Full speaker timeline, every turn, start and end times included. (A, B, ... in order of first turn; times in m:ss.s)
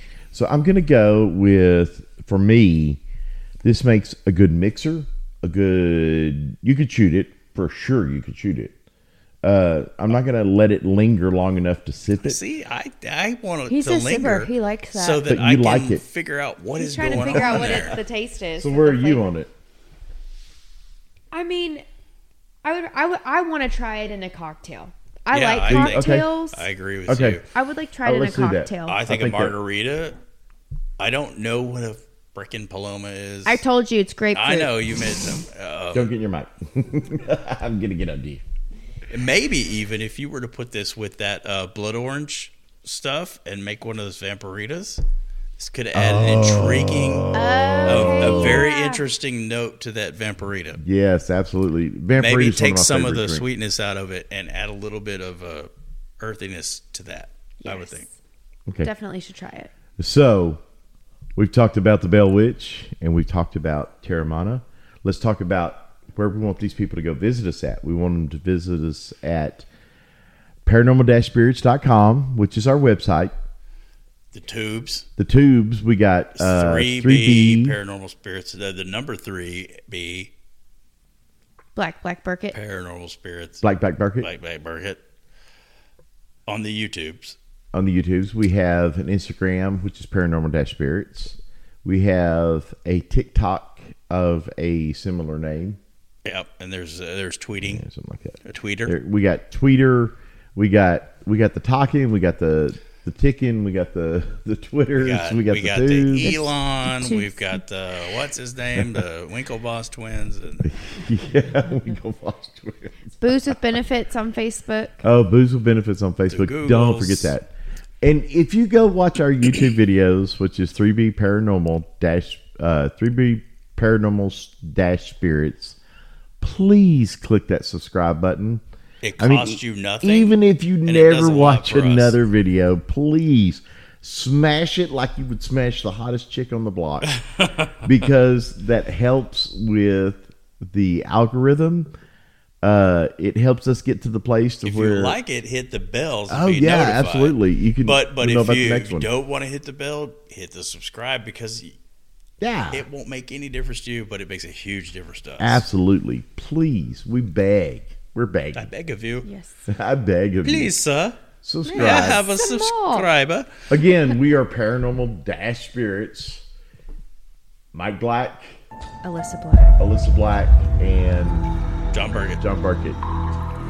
0:00.3-0:03.0 A
0:03.6-0:08.7 A
0:09.4-0:12.4 A
0:12.2-0:18.0 B
0:13.7-0:15.2 C
0:15.2-0:16.0 A
0:16.7-0:19.2 C
0:17.3-0:18.0 A
0:18.6-0:19.5 A
0:21.3-0:21.8 C
0:22.6-0:26.6 C
0:25.3-0:27.4 B
0:25.7-0:26.3 A
0:27.1-0:27.4 A
0:27.5-0:29.0 C
0:28.0-0:29.5 A
0:28.9-0:30.2 B
0:31.0-0:33.6 B
0:33.4-0:34.7 C
0:34.3-0:36.1 B
0:35.9-0:38.4 A
0:39.1-0:45.0 B
0:45.6-0:47.3 B
0:45.9-0:48.6 A
0:47.3-0:49.0 C
0:47.8-0:50.8 B
0:50.8-0:53.4 A
0:52.2-0:55.7 B
0:56.2-0:58.0 B
0:57.6-0:58.1 C
0:58.8-0:59.7 C
1:00.0-1:00.6 A
1:01.4-1:09.6 A
1:10.6-1:13.3 A
1:14.3-1:15.1 B
1:15.2-1:17.8 A
1:16.4-1:20.3 B
1:21.8-1:22.6 C
1:22.5-1:23.6 B
1:23.6-1:24.3 A
1:24.2-1:25.0 B
1:26.5-1:27.4 B
1:27.7-1:35.8 A
1:36.2-1:37.8 B
1:37.6-1:46.4 A
1:38.4-1:38.9 B
1:45.0-1:50.7 B
1:46.2-1:47.6 C
1:48.8-1:49.0 A
1:50.6-1:52.9 A
1:53.2-1:55.0 C
1:55.0-1:57.5 A
1:56.3-1:57.3 B
1:58.0-2:05.8 A
2:06.4-2:08.6 A
2:09.0-2:12.1 B
2:09.2-2:17.1 A
2:17.0-2:17.9 B
2:17.8-2:21.9 A
2:22.6-2:25.2 A
2:24.6-2:31.7 B
2:26.3-2:29.1 A
2:32.4-2:32.8 A
2:32.7-2:35.6 B
2:35.4-2:38.7 A
2:38.5-2:39.2 B
2:39.2-2:39.6 C
2:39.7-2:40.7 A
2:40.4-2:41.2 B
2:41.4-2:42.3 A
2:41.6-2:43.1 C
2:41.7-2:43.7 B
2:43.7-2:46.4 A
2:47.7-2:48.6 A
2:49.0-2:49.8 C
2:49.8-2:51.5 A
2:51.9-2:52.4 B
2:52.4-2:53.0 A